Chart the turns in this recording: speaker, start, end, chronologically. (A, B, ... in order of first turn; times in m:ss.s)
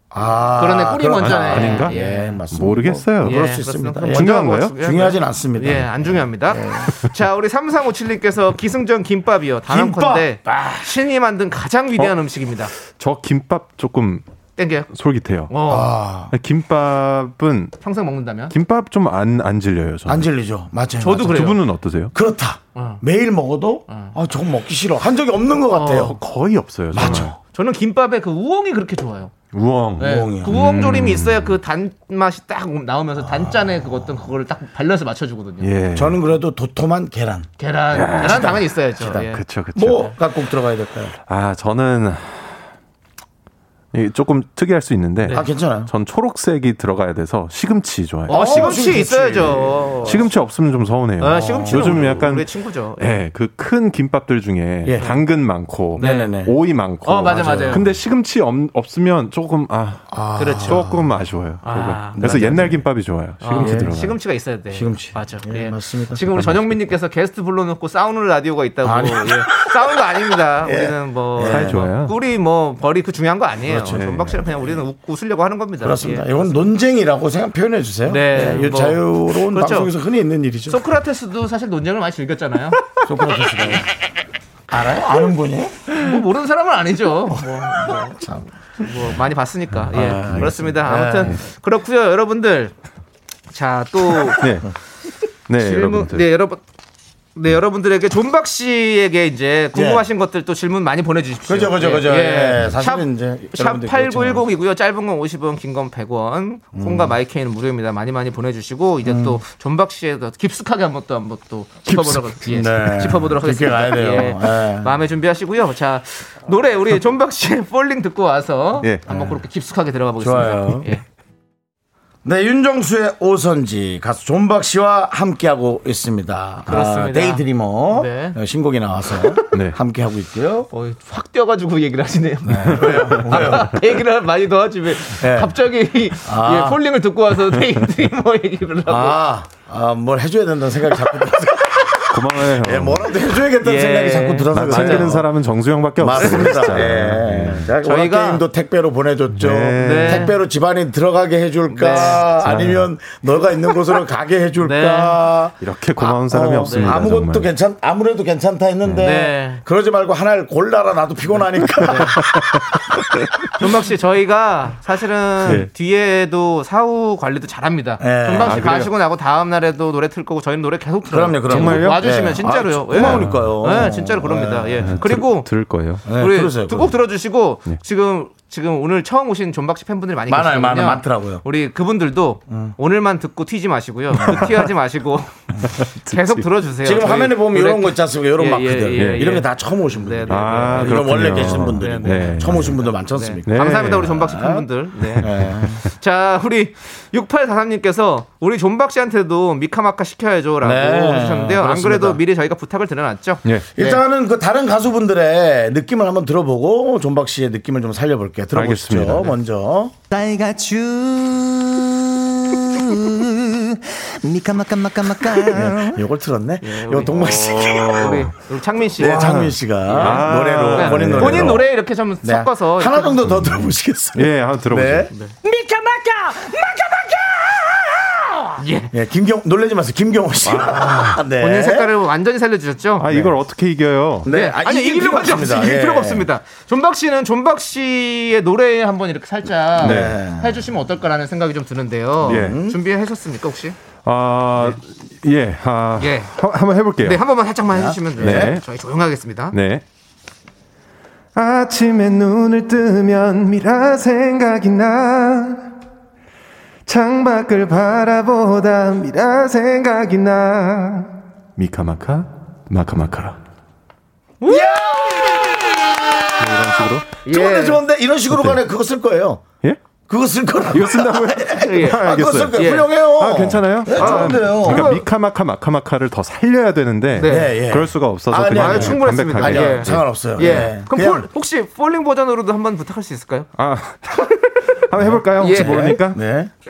0:00.1-0:06.9 A
0:00.6-0:02.4 B
0:01.2-0:02.0 C
0:02.5-0:03.5 C
0:03.2-0:12.7 B
0:04.1-0:04.7 C
0:09.7-0:10.8 A
0:12.8-0:14.2 C
0:14.6-0:14.9 B
0:14.9-0:15.6 C
0:15.5-0:15.9 B
0:15.7-0:16.3 A
0:16.3-0:17.7 C
0:17.8-0:18.5 B
0:18.5-0:20.3 C
0:20.0-0:21.5 A
0:21.0-0:21.6 B
0:21.2-0:22.1 C
0:22.1-0:26.2 A
0:22.7-0:23.0 B
0:23.9-0:24.1 B
0:25.7-0:26.2 B
0:25.9-0:27.3 C
0:26.9-0:27.4 A
0:26.9-0:29.3 B
0:29.5-0:31.6 C
0:30.0-0:35.7 B
0:30.0-0:30.6 A
0:33.2-0:33.9 A
0:35.6-0:36.2 C
0:35.9-0:37.5 A
0:37.6-0:40.1 B
0:37.9-0:40.1 C
0:38.1-0:41.1 A
0:41.3-0:42.6 C
0:43.9-0:48.9 C
0:45.2-0:45.5 B
0:45.3-0:45.9 A
0:48.3-0:50.3 B
0:48.3-0:50.2 A
0:50.0-1:00.0 C
0:51.2-0:53.1 B
0:51.3-0:52.2 A
0:54.8-0:55.1 A
0:56.0-0:56.3 B
0:56.0-0:56.6 A
0:57.0-0:57.9 B
0:57.2-0:57.9 A
1:00.1-1:01.1 A
1:00.4-1:00.8 B
1:00.7-1:04.2 C
1:01.6-1:02.7 B
1:02.2-1:02.8 A
1:03.4-1:16.6 B
1:03.6-1:03.9 A
1:04.7-1:06.5 A
1:08.8-1:11.8 A
1:11.5-1:12.2 C
1:13.7-1:14.8 A
1:13.9-1:14.3 C
1:15.8-1:20.8 A
1:18.1-1:19.9 B
1:20.7-1:22.8 B
1:23.0-1:23.9 A
1:24.7-1:25.9 A
1:25.9-1:32.7 B
1:27.3-1:29.0 A
1:29.9-1:31.4 A
1:30.0-1:30.5 C
1:33.5-1:34.4 B
1:34.4-1:34.7 C
1:35.5-1:36.3 C
1:35.6-1:36.6 B
1:37.4-2:01.0 B
1:39.7-1:40.0 A
1:41.4-1:44.4 A
1:46.7-1:47.2 A
1:49.0-1:49.4 A
1:52.4-1:54.9 A
1:58.8-1:59.0 C
1:59.1-1:59.4 A
2:00.2-2:00.9 A
2:02.2-2:10.7 A
2:06.7-2:08.4 B
2:09.5-2:09.8 C
2:10.7-2:19.2 B
2:12.4-2:13.8 A
2:15.1-2:15.5 A
2:16.2-2:16.8 A
2:18.9-2:25.3 A
2:22.1-2:23.1 C
2:23.6-2:25.2 B
2:24.5-2:27.7 C
2:26.0-2:43.0 A
2:26.1-2:26.8 B
2:27.8-2:28.4 B
2:29.4-2:30.3 C
2:29.8-2:30.3 B
2:31.7-2:32.3 B
2:32.4-2:32.9 C
2:34.6-2:35.3 B
2:35.6-2:37.5 C
2:36.0-2:37.0 B
2:39.0-2:39.6 B
2:41.8-2:42.2 B
2:42.0-2:43.5 C
2:43.5-2:55.5 B
2:45.4-2:45.7 C
2:48.0-2:48.9 A
2:48.4-2:48.9 C
2:51.0-2:55.0 A
2:51.5-2:52.3 C
2:52.9-2:53.6 C
2:54.8-2:56.0 C
2:56.0-2:56.9 A
2:56.1-3:05.3 B
3:00.3-3:01.4 A
3:02.5-3:02.7 A
3:04.2-3:04.5 A
3:04.2-3:04.5 C
3:05.7-3:06.4 C
3:06.1-3:24.0 B
3:06.8-3:14.6 A
3:08.9-3:09.3 C
3:10.3-3:12.9 C
3:13.4-3:14.1 C
3:15.1-3:15.7 C
3:15.2-3:15.8 A
3:20.6-3:22.2 A
3:23.4-3:23.7 C
3:23.7-3:29.9 A
3:28.5-3:29.3 C
3:30.1-3:36.0 D
3:35.5-3:38.1 A
3:36.6-3:43.2 B
3:37.1-3:38.3 C
3:39.0-3:41.7 A
3:39.0-3:41.6 C
3:42.2-3:51.9 A
3:43.3-3:43.6 C
3:44.1-3:45.1 C
3:48.6-3:48.9 B
3:50.4-3:51.2 C
3:51.3-3:53.1 B
3:53.0-3:54.3 C
3:54.2-3:56.3 A
3:54.3-4:03.8 B
3:59.8-4:00.6 A
3:59.8-4:00.1 C
4:02.2-4:02.8 A
4:02.3-4:02.6 C
4:04.0-4:07.2 C
4:06.0-4:06.4 B
4:07.0-4:09.6 B
4:07.7-4:08.6 A
4:08.2-4:08.6 C
4:09.5-4:09.8 C
4:11.3-4:15.7 C
4:16.8-4:23.4 C
4:24.4-4:25.3 B
4:24.4-4:29.5 A
4:26.4-4:27.1 C
4:27.2-4:27.8 B
4:28.3-4:28.6 C
4:30.0-4:35.0 A
4:30.7-4:40.7 C
4:31.5-4:32.9 B
4:33.9-4:35.0 B
4:37.1-4:37.5 B
4:37.2-4:41.3 A
4:38.5-4:43.5 B
4:43.6-4:46.2 C
4:44.1-4:44.6 B
4:45.0-4:46.5 A
4:45.2-4:46.0 B